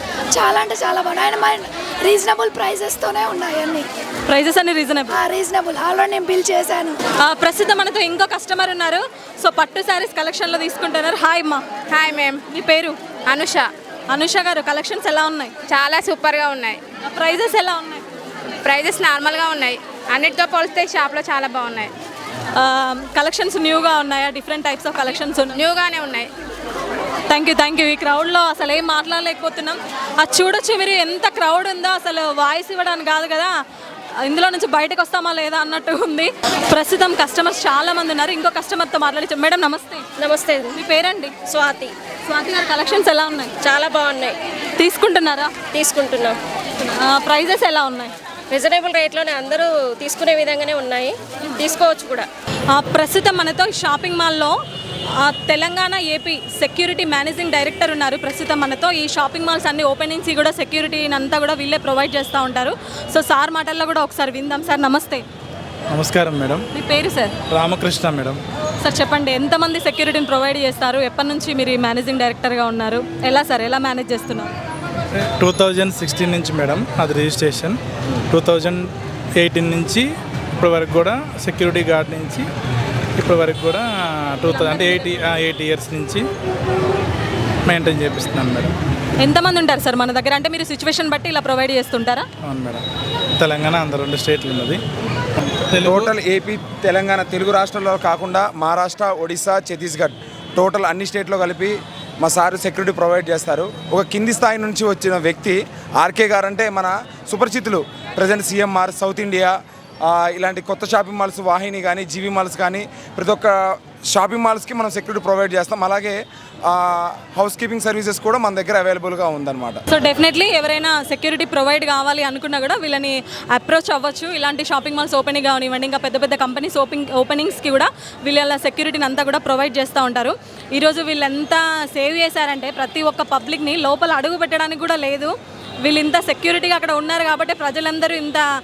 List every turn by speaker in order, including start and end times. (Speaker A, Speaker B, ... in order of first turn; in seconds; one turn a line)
Speaker A: 0.3-3.9
Speaker B: 4.3-5.2
Speaker A: 5.1-7.0
Speaker B: 7.2-11.7
Speaker C: 11.9-12.4
Speaker B: 12.5-13.0
Speaker C: 13.3-13.7
Speaker B: 14.1-15.5
Speaker C: 15.7-16.8
Speaker B: 17.0-18.0
Speaker C: 18.6-21.9
Speaker B: 22.5-25.6
Speaker C: 25.5-26.3
Speaker B: 27.3-33.5
Speaker B: 34.2-40.0
Speaker D: 40.2-40.7
Speaker B: 40.7-41.3
Speaker D: 41.5-41.9
Speaker B: 42.3-43.5
Speaker D: 43.6-44.4
Speaker B: 44.8-45.5
Speaker D: 45.7-46.4
Speaker B: 47.0-48.1
Speaker D: 48.5-52.3
Speaker B: 52.7-54.5
Speaker B: 55.2-65.2
Speaker E: 65.9-66.6
Speaker B: 66.7-67.3
Speaker E: 67.5-68.4
Speaker B: 68.8-74.5
Speaker E: 75.4-77.8
Speaker E: 78.3-80.0
Speaker E: 80.6-82.5
Speaker E: 83.2-86.2
Speaker B: 84.5-85.1
Speaker E: 87.7-88.7
Speaker B: 89.2-92.3
Speaker E: 92.4-92.8
Speaker E: 93.4-94.8
Speaker E: 95.7-96.1
Speaker F: 95.8-109.5
Speaker F: 110.1-119.8
Speaker B: 119.9-135.3
Speaker B: 135.8-138.4